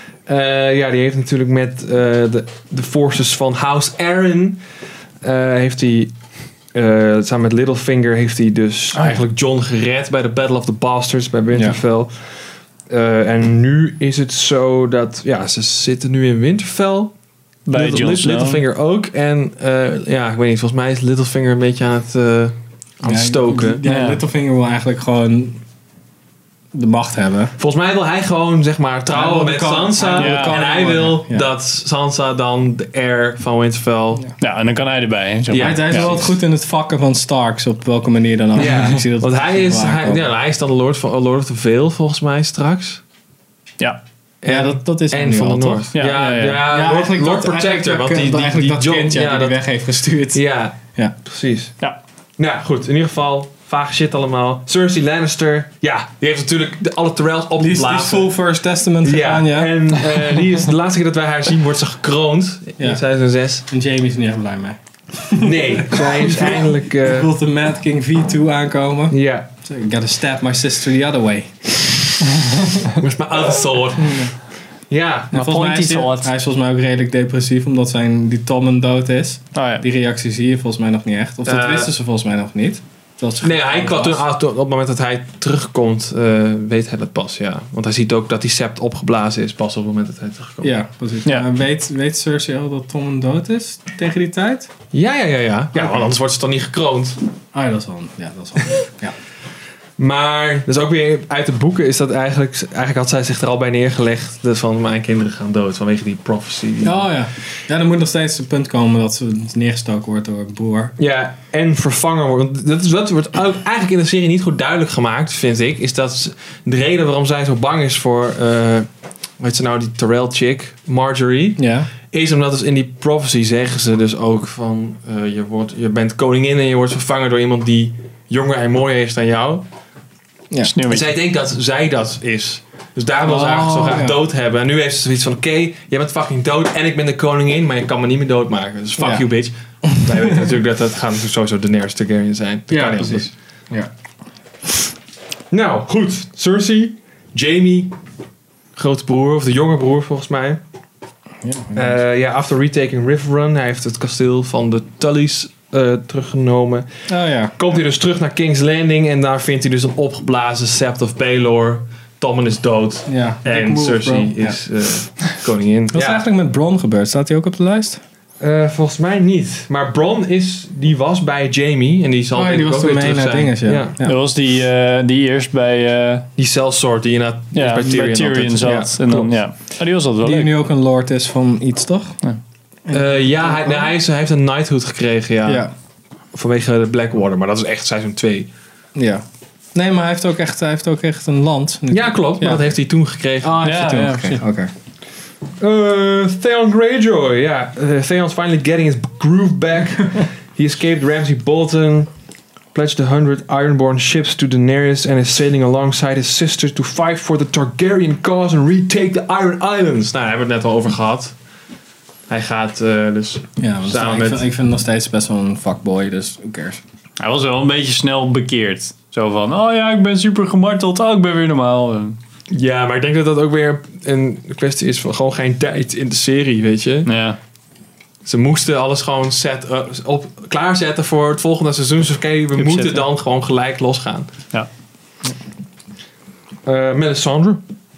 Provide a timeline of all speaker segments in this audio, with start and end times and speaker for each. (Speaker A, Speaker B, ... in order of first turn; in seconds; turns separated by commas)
Speaker A: 0.3-4.6, Speaker A: 5.2-6.1, Speaker A: 6.7-17.1, Speaker B: 8.9-9.2, Speaker C: 11.5-11.8, Speaker B: 17.6-18.6, Speaker A: 17.7-23.8, Speaker C: 23.0-25.6, Speaker B: 23.8-24.2, Speaker C: 26.7-27.5, Speaker A: 27.6-34.2, Speaker C: 29.1-31.5, Speaker B: 30.1-30.7, Speaker B: 34.4-36.2, Speaker A: 35.5-36.3, Speaker C: 35.5-40.3, Speaker A: 38.5-43.0, Speaker A: 44.4-49.6, Speaker C: 44.4-45.9, Speaker B: 45.9-46.6, Speaker C: 46.6-50.4, Speaker A: 50.3-51.7, Speaker A: 52.4-58.3, Speaker C: 57.6-60.0, Speaker A: 59.0-63.6, Speaker C: 63.7-71.7, Speaker A: 65.4-67.3, Speaker A: 69.1-69.5, Speaker A: 72.9-74.3, Speaker C: 73.9-74.3, Speaker A: 74.9-75.3, Speaker C: 75.3-84.2, Speaker B: 75.3-76.3, Speaker B: 79.5-79.8, Speaker A: 81.4-81.9, Speaker A: 83.4-90.7, Speaker C: 90.6-94.7, Speaker A: 94.9-97.2, Speaker C: 95.7-96.1, Speaker C: 97.5-99.1, Speaker A: 100.0-107.1, Speaker C: 106.8-110.9, Speaker A: 111.0-118.9, Speaker A: 119.4-129.7, Speaker C: 121.6-121.9, Speaker B: 130.6-131.1, Speaker A: 130.8-143.3, Speaker C: 133.2-134.2, Speaker C: 139.0-139.3, Speaker C: 139.8-140.5, Speaker C: 142.7-143.9, Speaker A: 145.5-147.9, Speaker A: 148.8-150.6, Speaker C: 151.4-152.0, Speaker A: 151.7-156.9, Speaker C: 157.1-157.5, Speaker A: 157.6-166.2, Speaker C: 163.1-164.6, Speaker C: 165.9-168.0, Speaker A: 168.4-173.9, Speaker C: 172.3-174.2, Speaker B: 174.0-176.3, Speaker A: 176.4-179.3, Speaker B: 177.5-180.5, Speaker C: 180.2-182.1, Speaker C: 182.8-183.9, Speaker A: 182.9-185.7, Speaker C: 185.4-185.7, Speaker A: 186.3-188.5, Speaker C: 188.9-192.8, Speaker A: 191.9-193.6, Speaker C: 193.4-194.7, Speaker B: 193.6-194.4, Speaker A: 195.6-202.1, Speaker A: 202.7-211.3, Speaker A: 212.3-214.4, Speaker C: 213.6-216.8, Speaker B: 217.2-222.2, Speaker A: 222.5-227.1, Speaker B: 227.1-227.4, Speaker A: 228.2-234.3, Speaker B: 232.6-233.0, Speaker A: 236.7-237.6